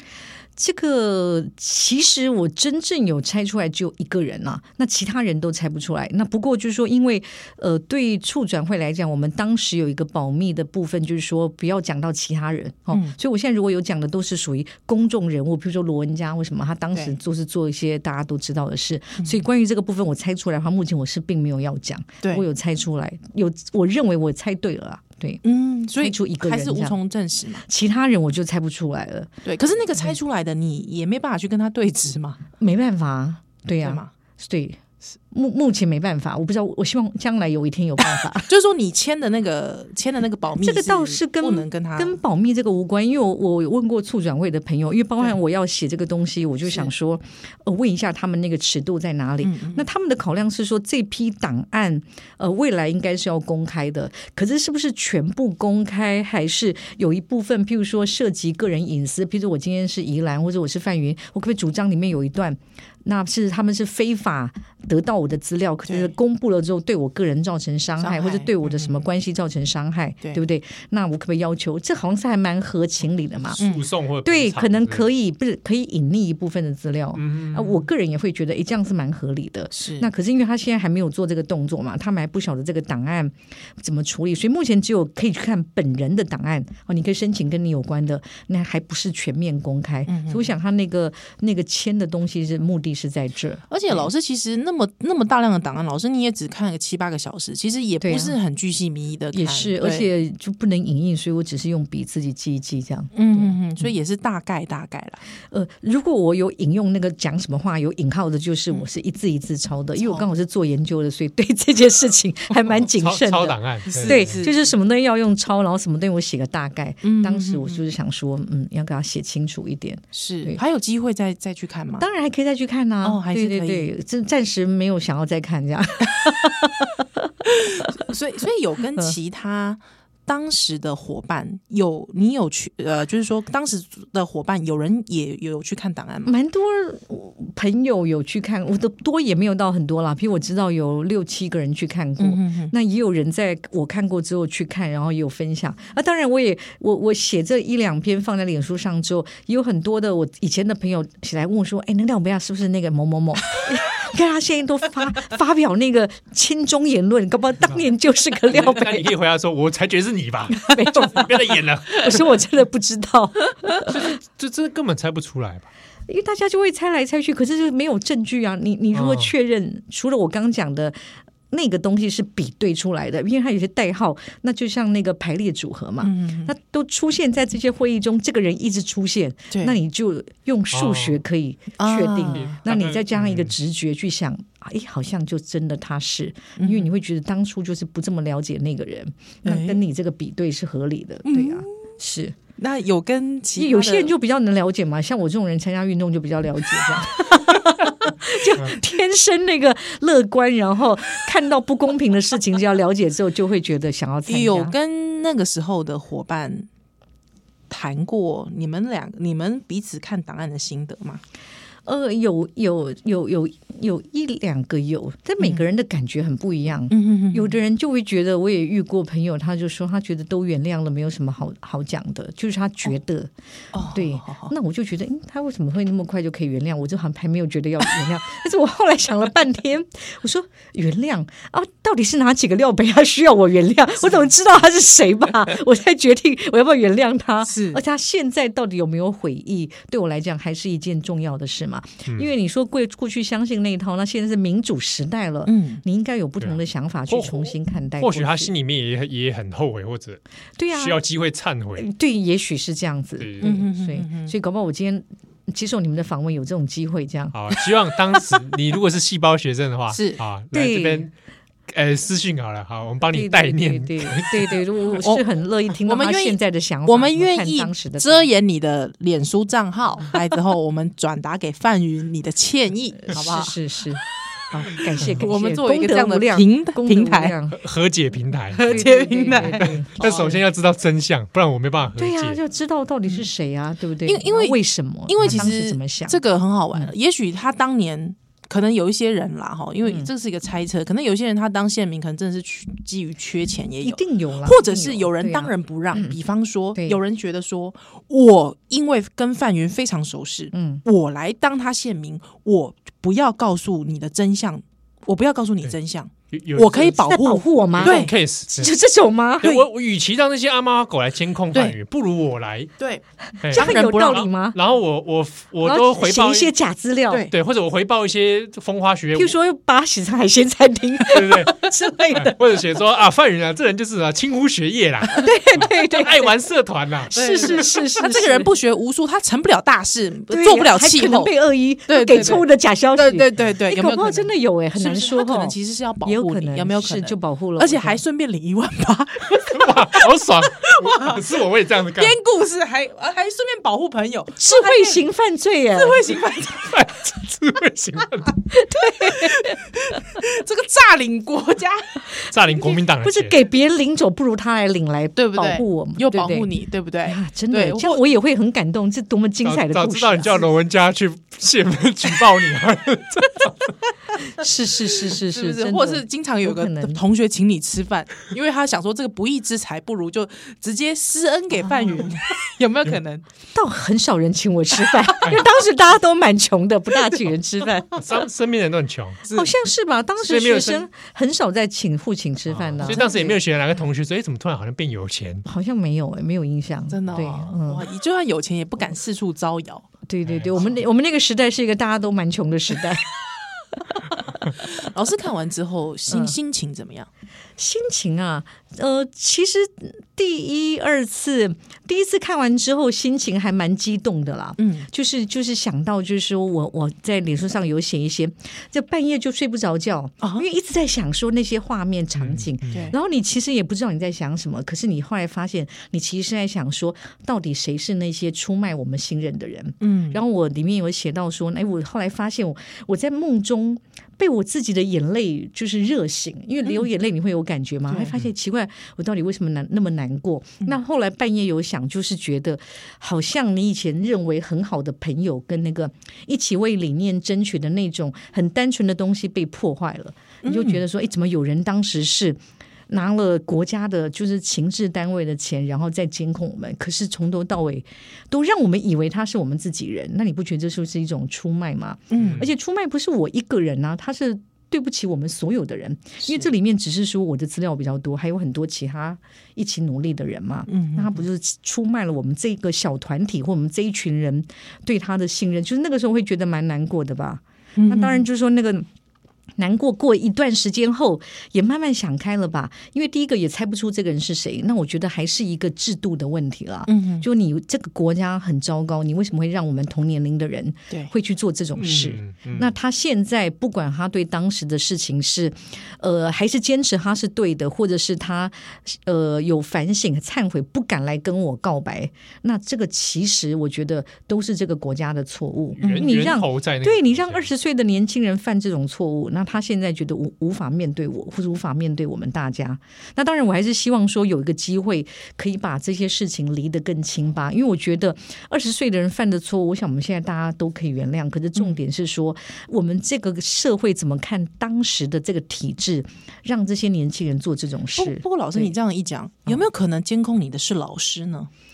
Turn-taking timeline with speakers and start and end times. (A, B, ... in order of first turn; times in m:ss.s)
0:00.6-0:25.4 A
0:25.4-0:27.6 B
0:26.0-0:27.0 A
0:27.6-0:29.3 A
0:29.4-0:32.4 B
0:32.6-0:34.8 A
0:33.8-0:34.1 B
0:35.3-0:38.5 A
0:38.5-0:42.2 B
0:40.6-1:13.6 A
0:49.4-0:49.8 B
1:05.9-1:06.1 B
1:08.0-1:09.0 B
1:13.5-1:15.1 C
1:13.6-1:13.8 B
1:14.2-1:34.1 A
1:17.1-1:17.8 C
1:19.7-1:20.1 B
1:30.1-1:30.5 B
1:33.7-1:40.1 B
1:38.0-1:38.4 A
1:39.3-1:43.6 A
1:43.1-1:45.2 B
1:45.5-2:00.6 A
1:50.0-1:50.3 B
1:52.9-1:54.4 C
1:53.9-1:54.6 B
1:57.0-1:57.8 B
2:00.1-2:02.0 B
2:02.0-2:06.9 A
2:03.0-2:03.9 B
2:07.5-2:16.3 B
2:16.2-2:39.1 A
2:22.2-2:22.7 B
2:38.5-2:42.2 C
2:40.5-2:44.0 A
2:43.9-2:45.7 C
2:46.1-2:51.0 A
2:48.9-2:49.3 C
2:51.5-3:12.4 A
2:56.0-2:56.5 B
2:59.5-2:59.8 B
3:00.7-3:01.2 C
3:01.8-3:02.6 B
3:02.3-3:03.5 C
3:06.6-3:06.9 B
3:09.4-3:09.8 B
3:11.2-3:11.7 B
3:12.6-3:14.1 B
3:13.6-3:24.7 A
3:24.3-3:26.7 B
3:27.7-3:31.2 B
3:31.8-3:43.3 A
3:36.9-3:37.6 B
3:43.7-3:44.5 B
3:43.9-4:08.5 A
3:57.4-3:57.8 B
4:05.4-4:05.8 B
4:06.4-4:10.2 C
4:10.6-4:11.0 A
4:10.7-4:11.9 C
4:11.8-4:17.4 A
4:13.2-4:13.5 C
4:13.4-4:14.3 B
4:17.3-4:21.1 C
4:19.9-4:20.2 B
4:20.5-4:21.1 A
4:21.7-4:24.6 C
4:23.1-4:28.3 A
4:25.8-4:33.5 B
4:33.1-4:37.6 A
4:35.0-4:37.3 B
4:37.5-4:42.4 C
4:38.5-4:40.4 B
4:38.7-4:40.3 A
4:42.0-4:46.2 A
4:44.0-5:08.1 B
4:45.2-4:45.5 C
4:53.8-4:56.1 A
5:00.5-5:00.8 A
5:06.3-5:07.0 C
5:07.0-5:09.6 A
5:07.8-5:08.7 C
5:09.4-5:12.7 C
5:12.8-5:14.3 B
5:13.4-5:16.5 C
5:13.5-5:14.6 A
5:15.6-5:17.3 A
5:17.3-5:19.3 C
5:19.1-5:22.4 A
5:21.1-5:21.6 C
5:22.1-5:27.8 C
5:25.2-5:26.3 A
5:27.1-5:28.5 A
5:27.1-5:31.3 B
5:30.3-5:38.0 A
5:31.9-5:41.3 B
5:39.4-5:42.2 C
5:41.9-5:45.0 B
5:44.4-5:46.0 A
5:45.7-5:46.7 B
5:46.6-5:48.3 C
5:48.5-5:49.6 A
5:49.0-5:51.9 B
5:52.3-5:53.3 C
5:52.5-5:56.5 A
5:55.2-5:58.0 B
5:57.0-6:00.4 A
5:59.4-6:03.7 C
6:04.3-6:07.0 A
6:05.1-6:13.2 B
6:13.5-6:18.0 A
6:18.0-6:19.2 C
6:19.3-6:19.5 B
6:19.3-6:23.4 A
6:20.2-6:20.8 C
6:22.5-6:25.4 C
6:22.8-6:23.2 B
6:25.4-6:27.8 A
6:26.9-6:29.9 B
6:30.1-6:33.1 A
6:30.2-6:30.6 C
6:34.5-6:37.1 B
6:36.1-6:36.3 A
6:37.6-7:48.9 A
6:44.6-6:44.9 B
6:52.2-6:52.9 C
6:52.7-6:53.0 B
6:59.8-7:00.2 B
7:07.9-7:08.1 B
7:20.4-7:20.8 B
7:32.1-7:32.4 B
7:32.2-7:32.5 C
7:36.2-7:36.5 B
7:40.7-7:41.2 B
7:47.8-7:48.2 B
7:49.6-8:38.7 A
7:56.9-7:57.2 B
8:01.8-8:02.7 C
8:15.8-8:17.5 C
8:15.8-8:16.3 B
8:38.0-8:41.5 B